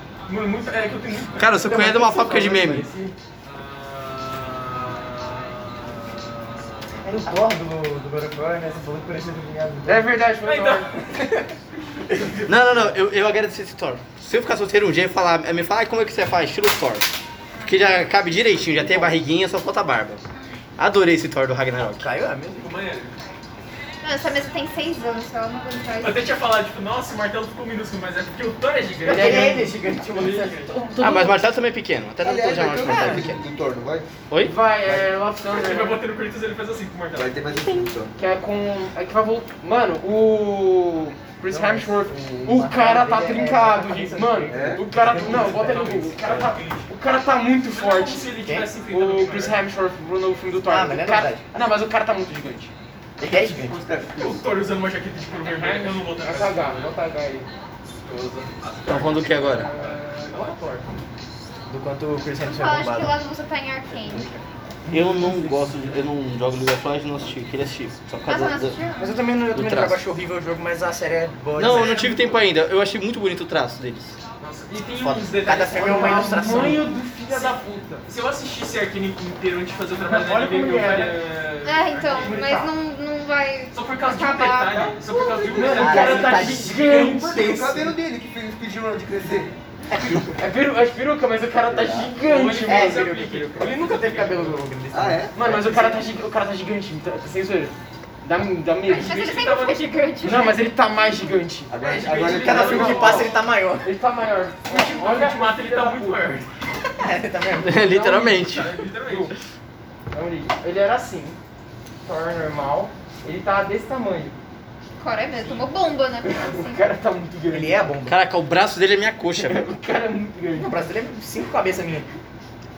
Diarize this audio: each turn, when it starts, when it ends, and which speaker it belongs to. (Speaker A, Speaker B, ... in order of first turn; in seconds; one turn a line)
Speaker A: 0.3-1.6
Speaker B: 1.4-2.9
Speaker C: 1.5-3.1
Speaker A: 3.4-7.0
Speaker C: 7.0-10.1
Speaker D: 9.8-11.2
Speaker A: 10.4-11.1
Speaker A: 12.1-12.5
Speaker B: 12.4-17.1
Speaker E: 17.5-18.4
Speaker B: 17.6-20.2
Speaker C: 18.7-19.1
Speaker E: 20.3-20.6
Speaker B: 20.8-22.1
Speaker C: 21.9-22.7
Speaker A: 22.6-23.2
Speaker E: 24.0-26.3
Speaker A: 26.0-30.8
Speaker C: 29.0-30.7
Speaker D: 29.0-29.7
Speaker D: 30.7-31.4
Speaker B: 30.9-33.4
Speaker F: 32.2-34.1
Speaker D: 32.8-33.2
Speaker B: 34.3-34.6
Speaker D: 34.4-36.0
Speaker A: 35.4-37.3
Speaker F: 37.1-38.1
Speaker D: 38.1-48.2
Speaker C: 41.5-46.5
Speaker F: 44.5-44.8
Speaker A: 45.0-46.9
Speaker A: 47.7-49.6
Speaker D: 48.9-52.7
Speaker C: 50.7-51.4
Speaker C: 53.2-53.8
Speaker F: 53.2-54.4
Speaker A: 54.1-56.9
Speaker D: 55.4-57.5
Speaker A: 58.0-60.5
Speaker B: 58.9-59.7
Speaker D: 59.5-60.3
Speaker C: 60.3-60.8
Speaker C: 61.7-63.1
Speaker E: 62.4-64.3
Speaker B: 64.9-68.8
Speaker D: 64.9-65.4
Speaker E: 68.2-69.1
Speaker C: 69.0-72.1
Speaker B: 69.5-70.0
Speaker B: 71.5-74.2
Speaker D: 71.7-72.3
Speaker A: 74.4-77.5
Speaker C: 75.0-76.8
Speaker D: 75.8-78.0
Speaker A: 78.0-82.5
Speaker D: 80.0-81.2
Speaker E: 81.6-85.1
Speaker D: 82.2-82.7
Speaker A: 83.7-87.2
Speaker D: 85.1-87.3
Speaker C: 85.5-88.0
Speaker F: 85.6-85.9
Speaker F: 86.7-89.5
Speaker C: 89.9-90.3
Speaker D: 90.2-93.1
Speaker F: 91.7-92.1
Speaker A: 92.2-94.6
Speaker C: 92.6-96.0
Speaker F: 94.9-95.4
Speaker D: 95.3-99.2
Speaker E: 98.8-100.7
Speaker A: 99.0-99.8
Speaker D: 100.2-106.4
Speaker F: 101.7-103.3
Speaker A: 101.9-103.2
Speaker C: 102.1-103.9
Speaker A: 104.7-106.5
Speaker C: 107.0-107.8
Speaker B: 107.6-108.8
Speaker D: 107.8-108.5
Speaker A: 108.3-109.3
Speaker D: 109.0-109.3
Speaker D: 110.1-111.4
Speaker D: 112.0-114.3
Speaker E: 115.0-116.9
Speaker A: 115.4-115.8
Speaker D: 116.2-117.9
Speaker C: 117.5-118.2
Speaker B: 118.0-119.7
Speaker D: 119.3-120.8
Speaker C: 120.5-122.0